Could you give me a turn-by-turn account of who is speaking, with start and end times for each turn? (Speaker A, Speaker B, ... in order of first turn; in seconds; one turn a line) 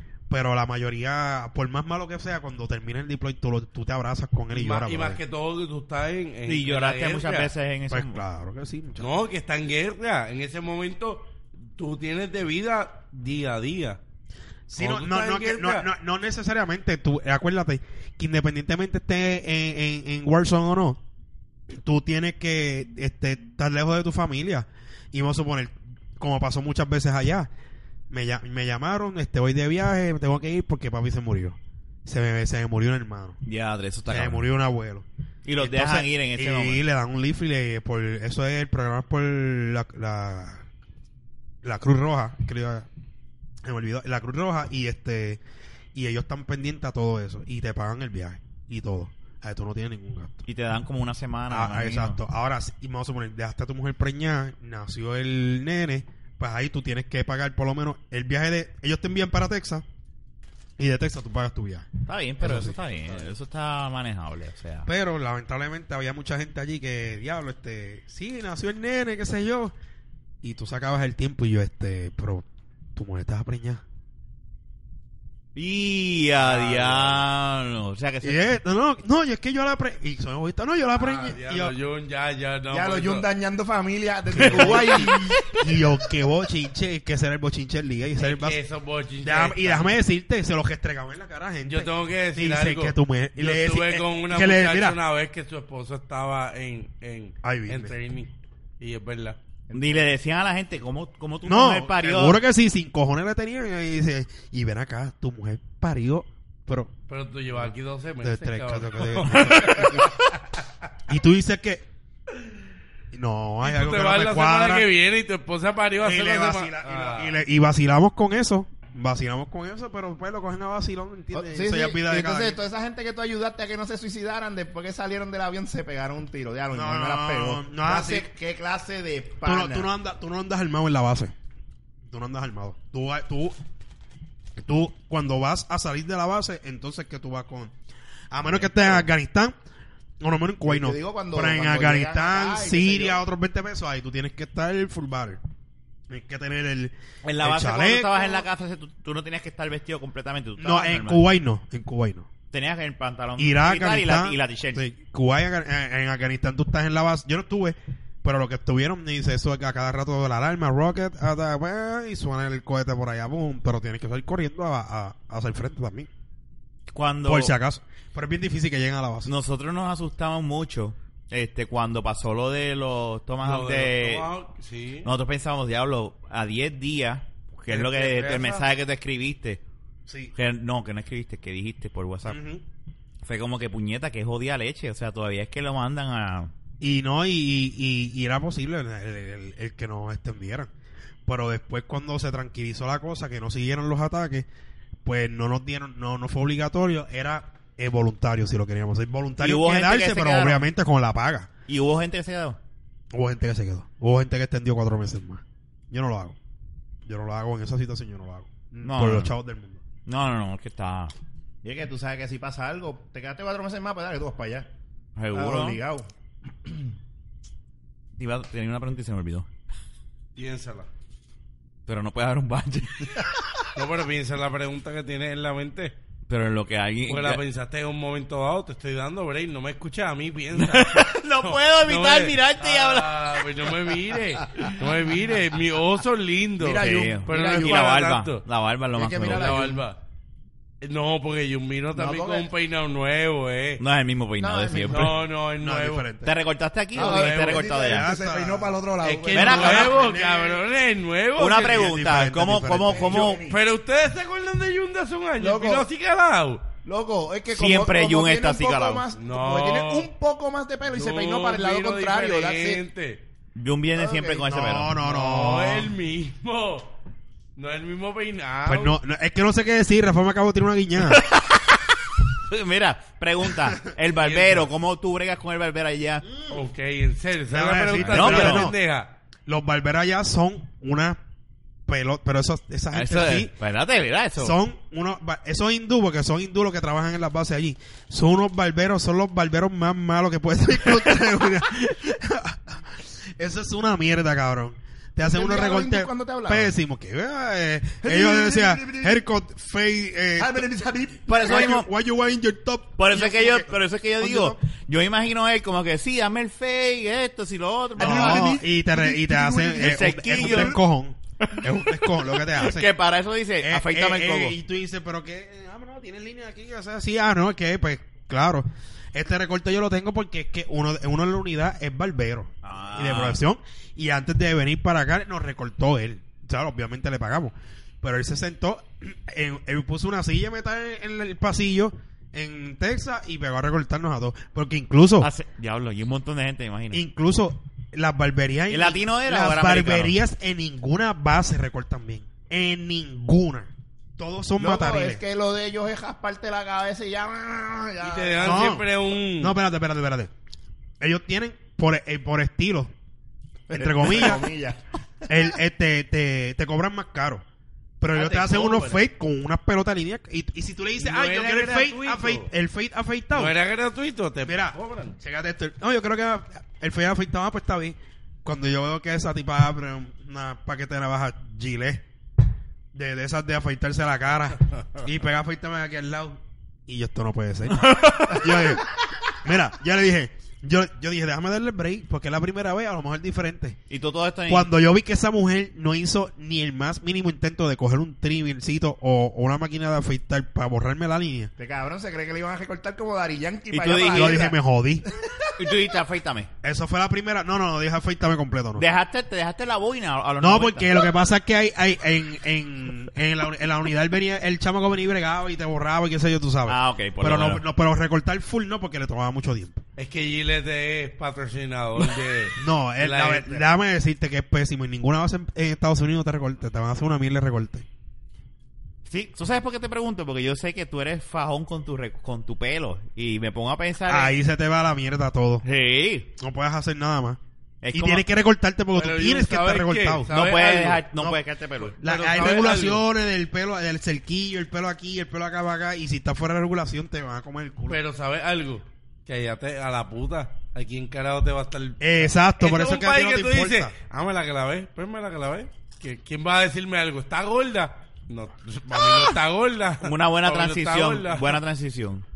Speaker A: 0.3-5.2
Speaker B: 4.5-7.5
Speaker C: 6.5-8.2
Speaker A: 7.9-9.1
Speaker B: 9.0-14.0
Speaker A: 14.7-21.0
Speaker B: 14.8-15.8
Speaker A: 21.7-27.5
Speaker A: 28.1-33.4
Speaker C: 33.4-34.5
Speaker A: 34.1-35.0
Speaker C: 35.4-36.8
Speaker A: 35.6-40.6
Speaker A: 41.6-42.9
Speaker A: 43.6-45.4
Speaker A: 45.9-50.4
Speaker C: 50.5-52.2
Speaker A: 51.5-59.8
Speaker A: 60.8-61.9
Speaker C: 62.0-64.9
Speaker A: 62.4-62.8
Speaker A: 64.9-69.7
Speaker A: 70.4-73.8
Speaker C: 75.5-78.4
Speaker A: 76.4-77.2
Speaker A: 78.2-81.8
Speaker B: 80.9-83.3
Speaker D: 82.7-85.4
Speaker A: 84.3-88.6
Speaker C: 84.6-85.0
Speaker B: 88.2-89.9
Speaker A: 89.2-95.0
Speaker B: 91.7-99.4
Speaker A: 97.4-97.9
Speaker D: 99.7-100.0
Speaker C: 99.7-102.4
Speaker A: 101.4-106.9
Speaker B: 107.1-110.1
Speaker A: 107.5-110.1
Speaker A: 111.1-111.8
Speaker A: 113.1-114.9
Speaker B: 113.6-117.4
Speaker A: 116.0-122.6
Speaker D: 121.3-129.9
Speaker A: 126.7-128.3
Speaker A: 129.4-131.3
Speaker A: 132.1-133.6
Speaker A: 134.6-137.7
Speaker A: 138.3-139.6
Speaker D: 138.6-139.0
Speaker A: 140.2-145.4
Speaker D: 140.7-143.2
Speaker A: 146.1-148.4
Speaker C: 147.2-151.2
Speaker A: 150.6-152.3
Speaker C: 152.5-154.8
Speaker A: 153.4-166.1
Speaker C: 166.9-167.5
Speaker A: 167.2-169.3
Speaker C: 169.2-174.3
Speaker B: 173.4-175.1
Speaker C: 175.0-179.6
Speaker B: 177.7-178.7
Speaker A: 180.1-180.3
Speaker C: 180.3-182.4
Speaker A: 182.3-182.6
Speaker C: 183.2-186.5
Speaker A: 186.8-190.7
Speaker A: 191.2-194.4
Speaker A: 195.0-201.5
Speaker C: 199.4-200.6
Speaker C: 201.7-202.6
Speaker A: 203.1-206.4
Speaker A: 207.1-209.8
Speaker C: 208.8-209.3
Speaker C: 210.1-211.1
Speaker D: 211.6-214.7
Speaker C: 215.2-215.8
Speaker D: 215.3-216.1
Speaker D: 216.6-216.9
Speaker C: 218.2-219.5
Speaker B: 220.3-220.9
Speaker C: 221.8-223.4
Speaker B: 223.7-225.9
Speaker C: 226.3-227.4
Speaker B: 227.1-238.4
Speaker C: 230.5-233.5
Speaker D: 236.6-237.9
Speaker C: 236.7-239.7
Speaker D: 238.9-239.8
Speaker B: 239.2-240.0
Speaker B: 240.8-243.8
Speaker D: 241.9-242.5
Speaker C: 243.8-245.2
Speaker D: 244.4-245.2
Speaker B: 244.9-246.1
Speaker A: 245.6-246.3
Speaker C: 246.2-248.1
Speaker D: 246.9-250.0
Speaker B: 246.9-247.7
Speaker A: 247.8-248.8
Speaker B: 249.0-251.8
Speaker C: 249.3-249.9
Speaker A: 249.7-250.6
Speaker C: 251.4-253.4
Speaker A: 251.6-253.2
Speaker D: 252.8-253.6
Speaker B: 253.5-256.6
Speaker D: 255.4-255.9
Speaker D: 256.8-262.8
Speaker C: 257.5-259.0
Speaker B: 259.1-260.1
Speaker B: 260.9-263.2
Speaker C: 263.6-265.0
Speaker D: 263.9-264.5
Speaker A: 264.5-265.9
Speaker B: 265.0-266.9
Speaker B: 267.6-268.9
Speaker A: 268.6-271.2
Speaker C: 271.0-276.3
Speaker B: 274.1-274.7
Speaker B: 276.5-279.1
Speaker A: 277.5-278.8
Speaker C: 278.0-278.7
Speaker A: 279.5-281.2
Speaker A: 281.9-283.5
Speaker C: 282.9-284.6
Speaker A: 284.4-300.6
Speaker D: 295.2-296.7
Speaker D: 298.0-299.2
Speaker D: 300.4-301.4
Speaker C: 301.3-301.9
Speaker A: 301.3-304.6
Speaker C: 303.0-308.5
Speaker D: 308.0-310.8
Speaker A: 308.0-312.9
Speaker C: 309.8-310.8
Speaker C: 311.4-314.6
Speaker A: 313.6-335.3
Speaker C: 322.6-323.4
Speaker C: 335.2-337.0
Speaker A: 336.9-345.2
Speaker C: 338.7-340.1
Speaker D: 344.6-348.7
Speaker B: 348.0-349.6
Speaker A: 348.4-350.3
Speaker A: 351.0-352.9
Speaker D: 353.7-354.8
Speaker A: 353.7-354.5
Speaker A: 355.3-357.4
Speaker A: 358.0-363.5
Speaker B: 358.1-359.0
Speaker B: 361.0-362.5
Speaker B: 363.3-365.1
Speaker A: 364.4-372.0
Speaker A: 372.9-383.8
Speaker C: 377.7-378.7
Speaker C: 383.9-384.7
Speaker A: 384.5-391.5
Speaker D: 391.6-394.6
Speaker C: 393.7-394.4
Speaker A: 394.0-395.1
Speaker D: 395.1-395.5
Speaker C: 395.6-396.5
Speaker A: 396.6-398.8
Speaker C: 398.8-400.9
Speaker A: 400.4-409.8
Speaker C: 406.6-407.6
Speaker B: 410.0-413.6
Speaker A: 412.6-417.9
Speaker C: 419.1-424.3
Speaker A: 424.1-425.6
Speaker C: 425.6-426.3
Speaker A: 426.4-427.4
Speaker C: 427.8-428.2
Speaker A: 427.9-430.3
Speaker B: 428.9-431.0
Speaker C: 430.3-432.0
Speaker B: 431.8-433.0
Speaker A: 432.0-438.0
Speaker B: 437.9-451.6
Speaker A: 442.0-443.9
Speaker C: 450.0-452.2